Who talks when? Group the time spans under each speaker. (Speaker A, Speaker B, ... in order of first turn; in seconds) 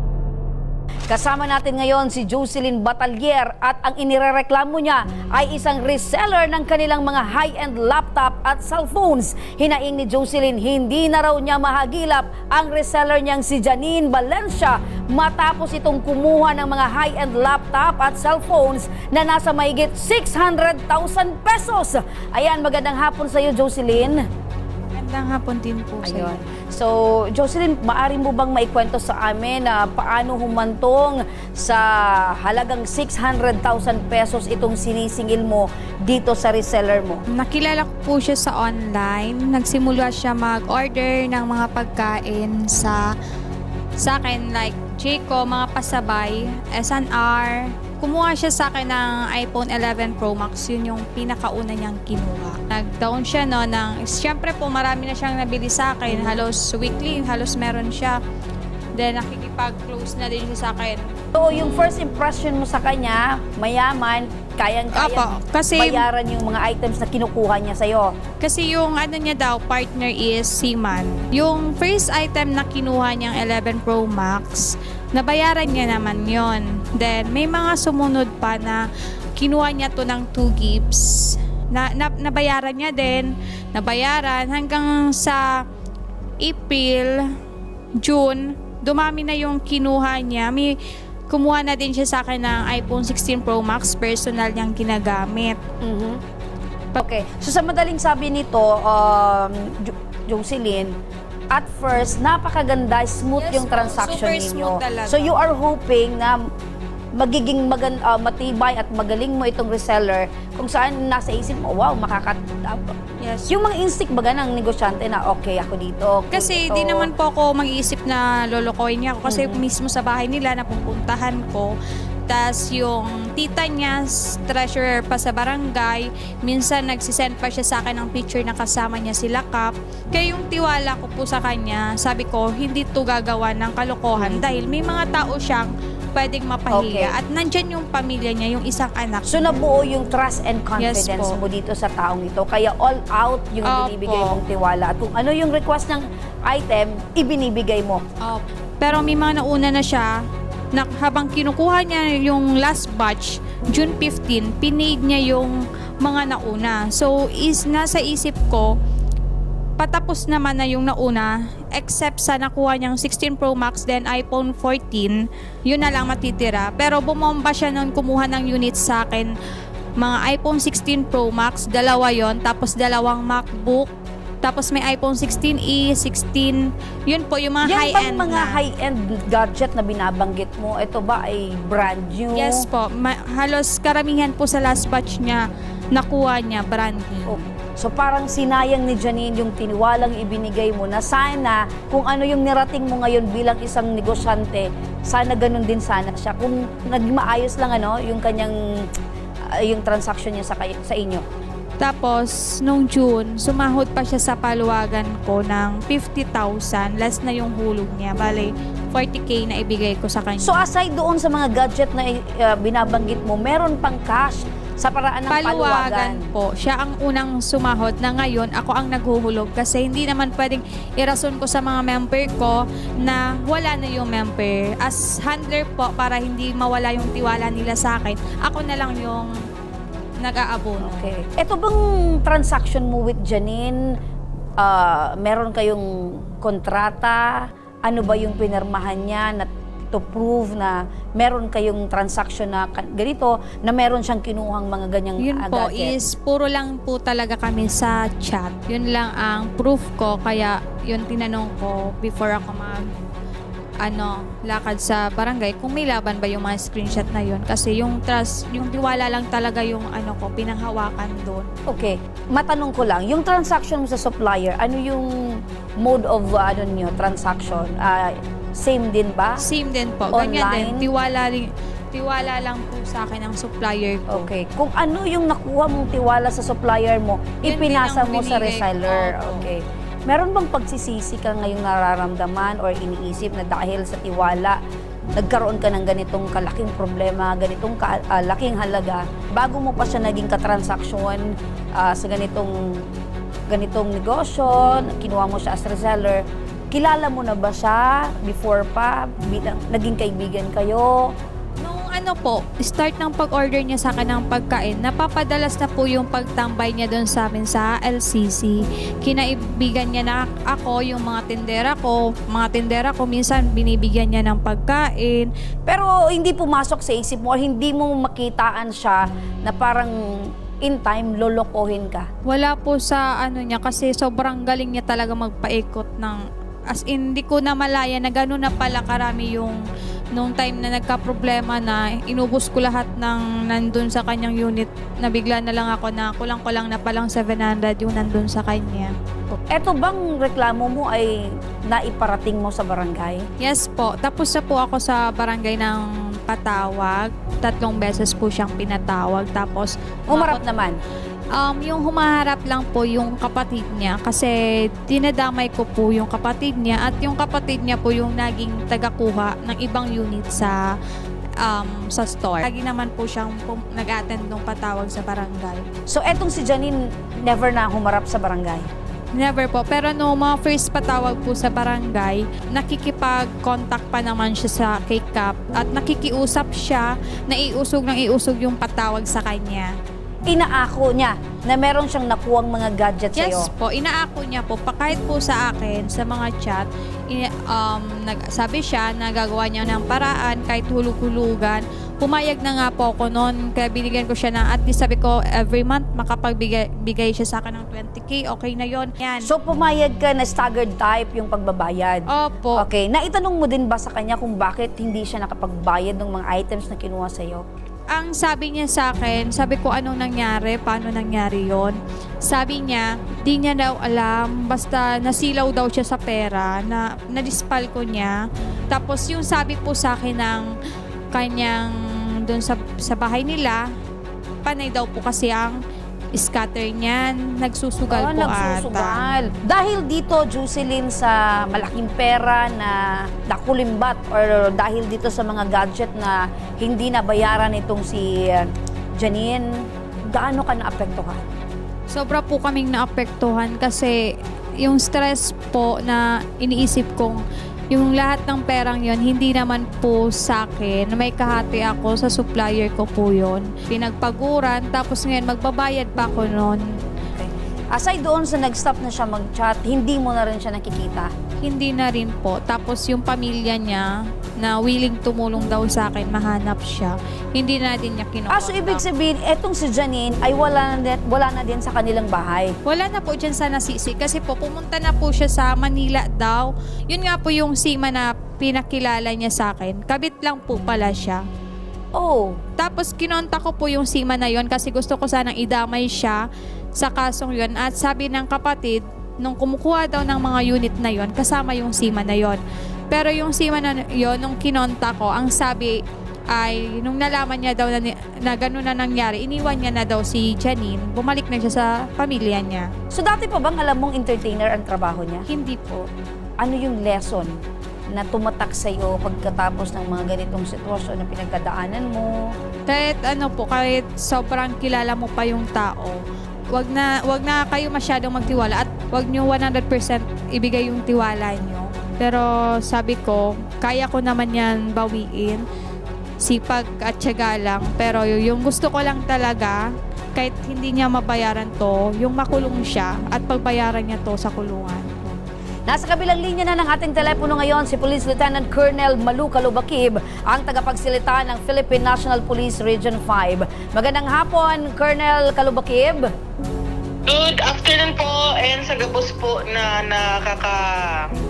Speaker A: 1.1-24.2, 26.0-37.2, 56.1-56.5, 61.4-68.1, 95.8-96.2, 97.0-101.0, 101.5-106.4, 107.2-113.0, 113.5-117.1, 119.3-119.7, 134.2-134.8, 136.7-137.2, 139.3-148.0, 177.6-182.7, 187.3-198.8, 199.6-201.2, 210.4-216.3, 230.8-233.8, 234.6-246.0, 261.7-269.4, 270.1-270.9, 274.1-284.6, 285.2-292.9, 293.5-301.1, 315.7-322.1, 339.4-343.2, 350.1-350.8, 365.9-368.7, 380.3-383.5, 399.2-407.4, 427.9-439.5, 440.1-441.3, 457.0-461.1, 468.3-472.6, 482.0-482.4, 502.9-505.2, 506.4-507.4, 507.9-512.2, 535.7-546.1
Speaker B: 24.9-26.3, 37.3-43.0, 44.0-58.2, 59.0-61.0, 64.9-66.0, 68.4-78.8, 79.4-85.4, 86.4-87.2, 88.0-90.8, 91.3-95.6, 103.4-105.4, 113.2-113.5, 116.3-121.7, 122.3-139.6, 140.8-141.4, 143.7-144.4, 148.2-150.1, 150.7-158.7, 159.8-169.3, 170.0-173.9, 174.4-178.6, 182.3-187.4, 201.8-210.5, 215.3-229.3, 230.2-231.1, 245.2-252.8, 253.8-261.5, 269.4-274.3, 277.4-279.5, 301.6-315.3, 322.3-329.6, 330.1-338.9, 343.4-350.4, 351.4-354.4, 354.9-360.6, 361.4-365.6, 369.1-379.7, 383.2-399.3, 402.1-402.6, 407.9-418.2, 418.7-420.5, 421.1-421.7, 422.2-423.6, 424.4-425.6, 426.1-429.1, 441.9-444.0, 444.6-456.6, 461.4-468.8, 472.6-481.2, 482.6-486.2, 486.8-495.8, 496.3-502.7, 505.3-505.9, 512.7-516.0, 516.5-525.5, 526.2-529.6, 530.2-535.2
Speaker C: 547.1-551.1